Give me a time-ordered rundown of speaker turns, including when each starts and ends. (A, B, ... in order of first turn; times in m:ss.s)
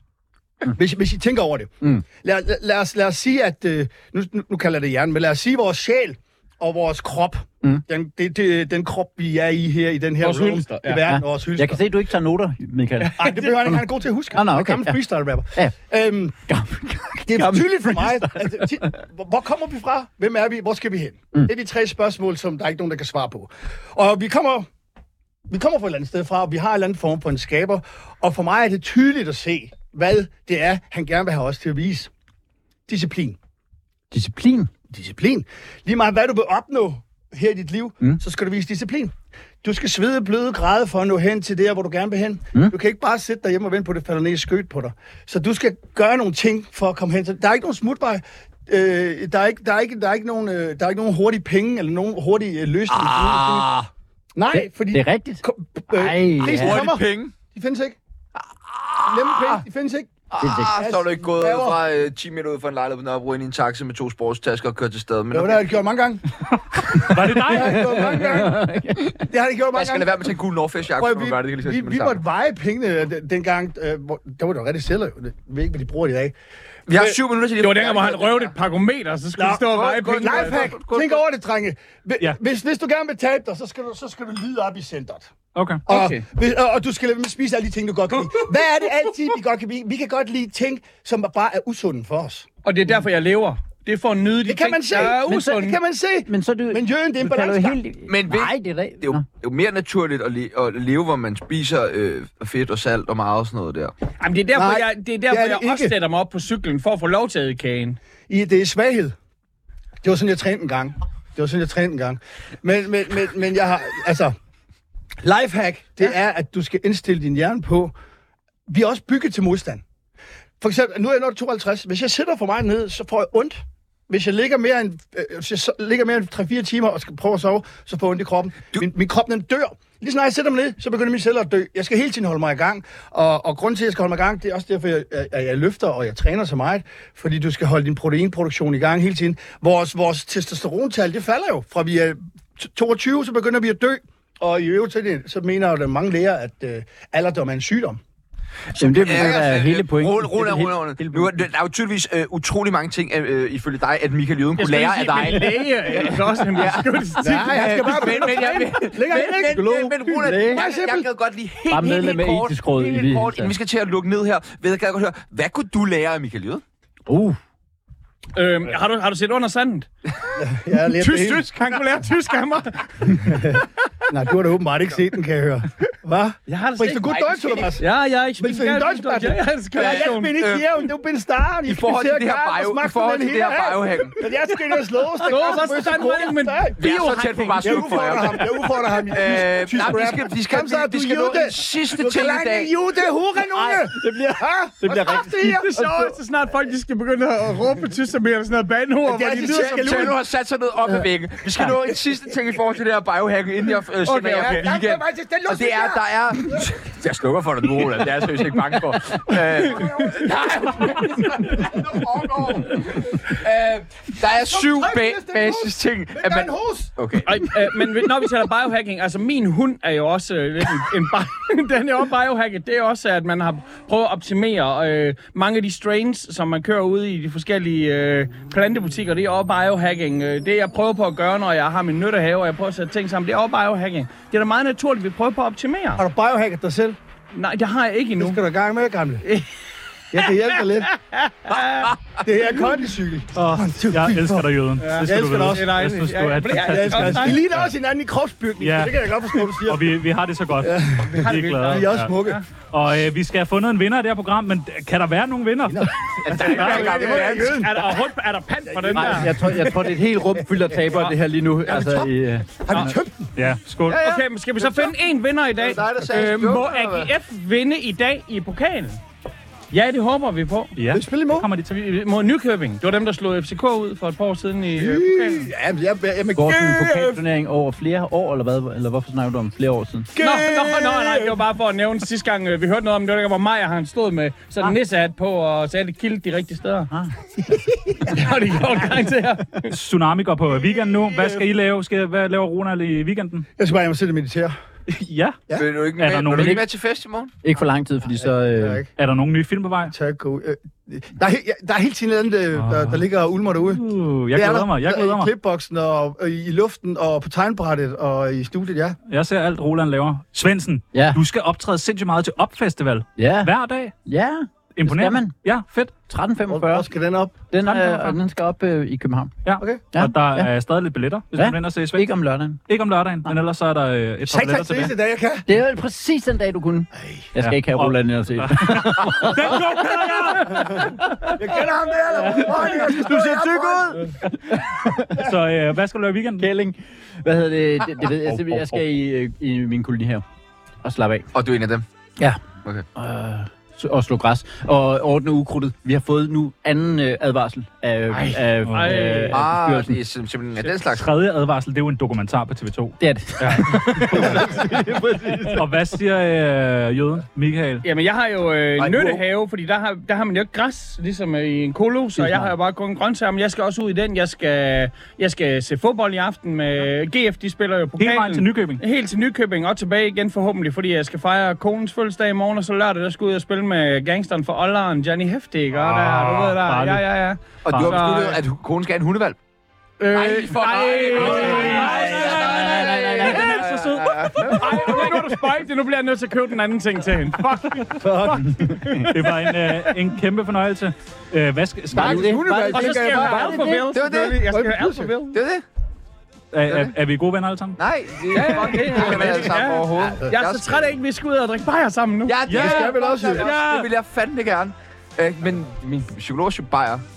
0:00.6-0:11.8 A
0:10.2-0:11.0 B
0:11.1-0:13.8 C
0:13.0-0:13.6 B
0:13.2-0:16.4 A
0:14.3-0:15.0 C
0:16.5-0:18.9 C
0:17.2-0:24.7 A
0:25.5-0:32.1 A
0:32.9-0:33.4 A
0:34.1-0:34.7 C
0:34.9-0:53.7 A
0:52.9-0:53.9 D
0:54.3-0:58.0 A
0:54.5-0:56.9 C
0:56.4-0:57.3 D
0:58.4-0:59.6 D
0:59.0-1:01.8 A
1:00.3-1:05.7 D
1:00.4-1:00.8 C
1:05.3-1:06.2 A
1:06.9-1:08.0 E
1:07.0-1:10.3 A
1:07.6-1:09.2 C
1:09.7-1:12.2 D
1:10.9-1:16.4 A
1:16.9-1:18.5 D
1:16.9-1:17.2 A
1:17.6-1:20.7 B
1:19.4-1:25.3 A
1:19.7-1:21.2 D
1:25.5-1:25.8 E
1:25.9-1:32.5 A
1:25.9-1:26.2 B
1:32.6-1:35.8 B
1:34.4-1:37.8 A
1:35.0-1:35.6 C
1:36.3-1:39.2 C
1:38.1-1:43.9 D
1:44.2-1:48.0 B
1:44.5-1:45.9 A
1:48.3-1:49.1 A
1:50.0-1:54.3 A
1:55.2-1:57.9 A
1:58.7-1:59.8 A
2:00.6-2:28.0 A
2:28.7-2:46.6 D
2:28.8-2:31.4 C
2:34.6-2:38.7 B
2:37.2-2:41.1 A
2:40.2-2:40.6 C
2:41.7-2:43.5 C
2:47.1-2:47.4 C
2:48.3-2:49.9 B
2:50.4-2:51.5 A
2:50.9-2:53.4 B
2:53.2-2:57.8 A
2:56.5-2:57.2 B
2:57.1-2:57.8 D
2:57.8-3:00.3 B
2:58.4-3:06.8 A
2:59.8-3:00.6 D
3:01.6-3:04.2 D
3:05.2-3:08.4 B
3:06.8-3:08.5 D
3:07.6-3:15.6 A
3:09.1-3:12.7 D
3:13.5-3:16.1 C
3:15.4-3:20.0 B
3:19.0-3:20.2 A
3:19.5-3:31.6 D
3:24.0-3:24.7 B
3:24.4-3:26.1 A
3:29.6-3:33.2 A
3:29.6-3:30.3 B
3:32.9-3:37.4 D
3:34.3-3:36.9 A
3:37.2-3:56.0 B
3:56.0-3:57.0 A
3:57.3-3:58.4 B
3:58.2-3:59.2 A
3:59.2-3:59.5 B
4:00.1-4:00.9 A
4:00.2-4:01.9 B
4:01.5-4:02.0 D
4:02.2-4:05.8 A
4:03.3-4:07.7 E
4:04.8-4:07.4 B
4:06.5-4:10.0 A
4:08.6-4:08.9 E
4:09.6-4:12.1 E
4:10.6-4:12.4 A
4:11.1-4:12.4 B
4:12.7-4:15.9 E
4:15.6-4:17.9 A
4:16.2-4:17.6 D
4:16.3-4:19.4 B
4:18.6-4:20.7 A
4:18.9-4:22.5 C
4:21.6-4:22.1 A
4:22.6-4:23.3 A
4:22.8-4:24.0 E
4:23.9-4:24.9 D
4:23.9-4:29.0 B
4:25.6-4:27.1 D
4:29.7-4:30.7 B
4:30.8-4:31.7 E
4:30.9-4:31.5 A
4:31.7-4:35.5 B
4:34.8-4:37.2 A
4:36.3-4:40.1 C
4:40.1-4:41.4 A
4:40.2-4:46.9 B
4:47.9-4:48.2 A
4:48.1-4:49.7 B
4:49.7-4:53.5 E
4:50.5-4:51.5 A
4:53.6-4:54.5 A
4:54.9-4:55.4 E
4:55.5-4:57.3 D
4:55.9-4:56.7 E
4:56.4-4:56.6 C
4:57.4-4:58.8 C
4:58.0-4:58.9 A
4:59.0-4:59.9 E
4:59.9-5:09.0 A
5:02.6-5:03.0 E
5:03.6-5:05.3 E
5:09.1-5:13.9 E
5:10.9-5:11.2 C
5:13.2-5:13.5 C
5:14.0-5:15.4 C
5:14.8-5:15.9 E
5:16.1-5:16.9 C
5:16.5-5:17.4 A
5:17.5-5:19.3 C
5:17.6-5:18.2 E
5:19.4-5:22.1 E
5:19.6-5:19.8 A
5:19.9-5:20.5 C
5:21.3-5:22.6 C
5:22.7-5:24.9 E
5:24.2-5:25.5 A
5:25.5-5:29.8 C
5:27.0-5:27.3 A
5:27.4-5:31.3 E
5:31.3-5:34.1 A
5:32.2-5:35.2 C
5:35.1-5:36.5 E
5:36.4-5:40.2 C
5:38.0-5:38.8 E
5:40.8-5:41.3 C
5:41.3-5:41.8 D
5:42.9-5:50.0 C
5:48.1-5:49.4 B
5:48.6-5:49.2 E
5:49.3-5:51.1 D
5:50.9-5:54.7 E
5:53.0-5:55.6 C
5:55.4-5:57.9 E
5:57.8-6:18.4 B
5:58.8-5:59.2 D
6:02.2-6:02.5 C
6:08.0-6:08.8 E
6:15.8-6:17.0 E
6:17.6-6:19.4 D
6:17.7-6:18.2 E
6:20.0-6:23.6 B
6:20.1-6:25.1 D
6:21.1-6:25.2 E
6:21.8-6:22.6 A
6:24.4-6:28.0 B
6:28.0-6:28.9 A
6:28.7-6:30.0 B
6:29.0-6:32.4 E
6:31.9-6:35.1 A
6:31.9-6:33.9 C
6:32.7-6:35.4 B
6:33.9-6:34.6 D
6:35.3-6:35.6 D
6:36.5-6:37.8 E
6:36.6-6:37.0 D
6:37.8-6:40.9 D
6:38.3-6:42.4 B
6:38.9-6:39.6 A
6:42.2-6:47.0 D
6:42.4-6:43.9 E
6:42.5-6:43.5 A